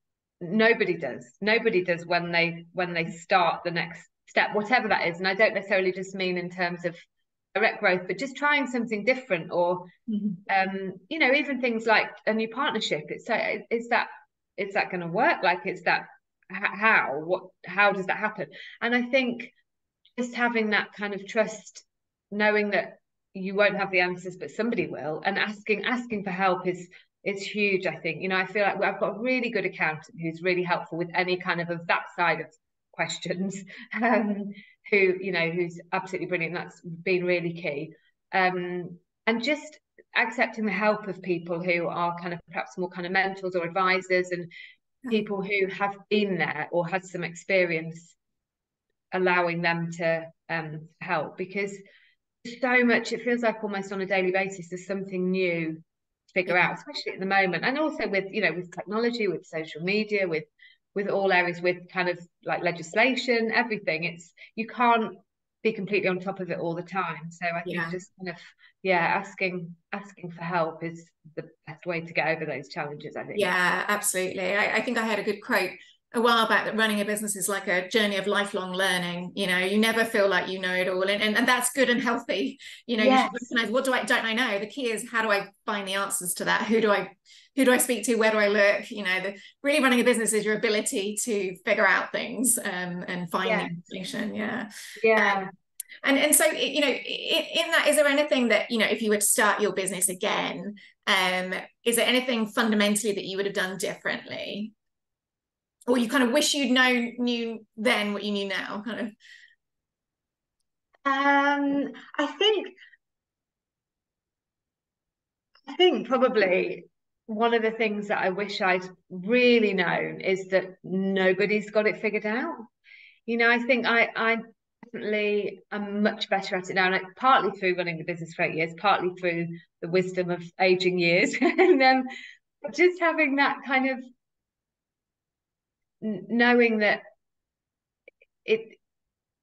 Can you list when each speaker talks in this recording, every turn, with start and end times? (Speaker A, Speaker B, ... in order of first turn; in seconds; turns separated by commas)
Speaker A: 0.4-7.0, Speaker A: 7.5-9.9, Speaker B: 10.1-10.4, Speaker A: 10.5-19.5, Speaker A: 20.2-44.5, Speaker A: 45.1-48.2, Speaker A: 49.1-51.8, Speaker A: 52.4-55.8, Speaker A: 56.3-73.5, Speaker B: 67.7-68.0, Speaker B: 73.3-95.5, Speaker A: 83.0-83.5, Speaker A: 93.4-93.8, Speaker A: 95.0-95.5, Speaker B: 96.0-104.7, Speaker B: 105.9-109.1, Speaker A: 111.0-112.8, Speaker A: 115.7-122.7, Speaker A: 123.3-132.1, Speaker A: 132.6-134.0, Speaker A: 136.0-137.0, Speaker A: 138.4-138.8